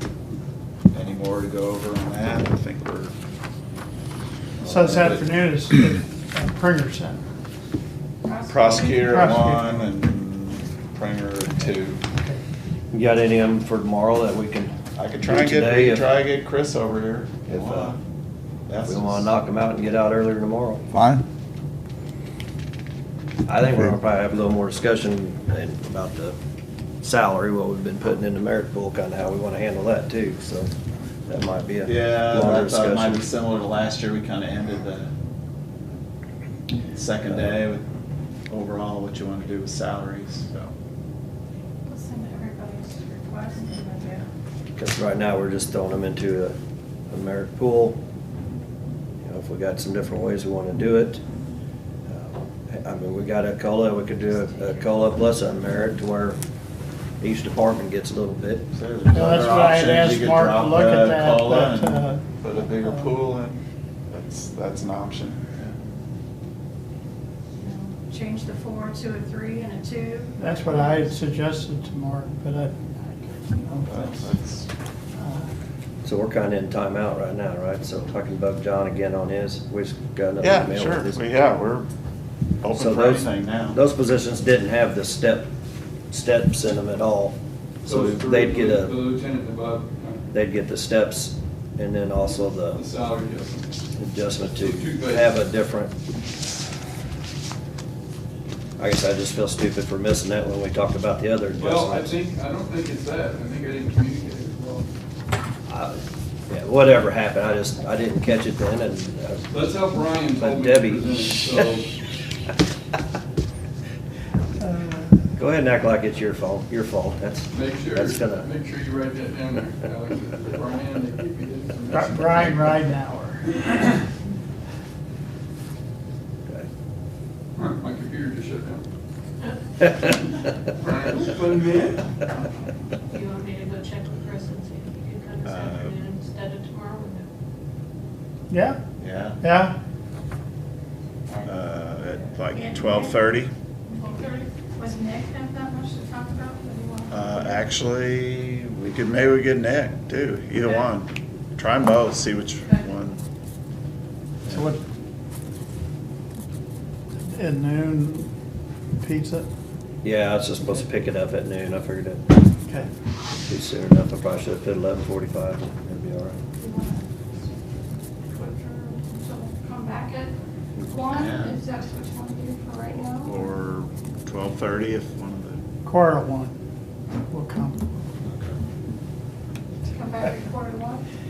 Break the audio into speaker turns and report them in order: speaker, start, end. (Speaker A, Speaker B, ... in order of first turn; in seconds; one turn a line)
Speaker A: 0.9-3.1
Speaker A: 4.6-5.2
Speaker B: 4.6-7.2
Speaker C: 8.2-9.2
Speaker A: 8.5-12.0
Speaker B: 8.8-9.9
Speaker B: 11.5-12.4
Speaker D: 12.9-16.1
Speaker A: 15.0-18.0
Speaker D: 17.5-18.0
Speaker A: 18.7-19.3
Speaker D: 18.9-20.9
Speaker A: 20.9-21.3
Speaker D: 23.5-26.4
Speaker D: 27.0-30.7
Speaker D: 31.3-33.2
Speaker A: 31.9-35.1
Speaker A: 36.9-37.8
Speaker A: 38.5-40.7
Speaker C: 41.9-44.3
Speaker D: 44.8-46.5
Speaker D: 47.1-48.0
Speaker D: 49.2-51.2
Speaker D: 52.0-56.4
Speaker D: 57.2-58.7
Speaker A: 58.7-65.7
Speaker B: 59.1-62.2
Speaker B: 62.8-63.1
Speaker C: 67.6-71.1
Speaker B: 70.4-72.8
Speaker B: 73.6-74.3
Speaker A: 73.8-74.7
Speaker B: 75.2-75.5
Speaker D: 76.0-81.2
Speaker A: 80.4-81.9
Speaker A: 82.6-83.8
Speaker D: 82.7-85.5
Speaker D: 86.1-89.0
Speaker E: 87.8-90.2
Speaker D: 90.3-92.8
Speaker E: 92.7-93.8
Speaker D: 94.0-96.0
Speaker E: 94.5-95.3
Speaker D: 98.8-102.2
Speaker E: 101.5-104.9
Speaker D: 105.7-109.6
Speaker E: 109.5-111.9
Speaker D: 110.3-111.7
Speaker B: 114.6-115.2
Speaker D: 115.3-118.5
Speaker E: 117.5-122.8
Speaker B: 121.9-124.0
Speaker E: 127.6-128.8
Speaker E: 130.8-132.2
Speaker C: 133.1-137.3
Speaker A: 135.4-136.1
Speaker B: 138.5-138.8
Speaker A: 139.0-139.4
Speaker B: 139.4-139.8
Speaker A: 141.3-143.5
Speaker C: 142.5-143.2
Speaker C: 143.9-147.6
Speaker A: 147.1-153.2
Speaker B: 154.5-154.8
Speaker B: 157.3-158.3
Speaker B: 159.0-159.5
Speaker D: 160.0-162.2
Speaker D: 163.5-166.4
Speaker C: 166.6-167.5
Speaker C: 168.3-170.3
Speaker C: 170.9-173.3
Speaker A: 171.1-171.6
Speaker A: 173.2-175.6
Speaker B: 175.8-176.6
Speaker B: 177.3-177.9
Speaker A: 178.2-178.6
Speaker C: 179.9-181.0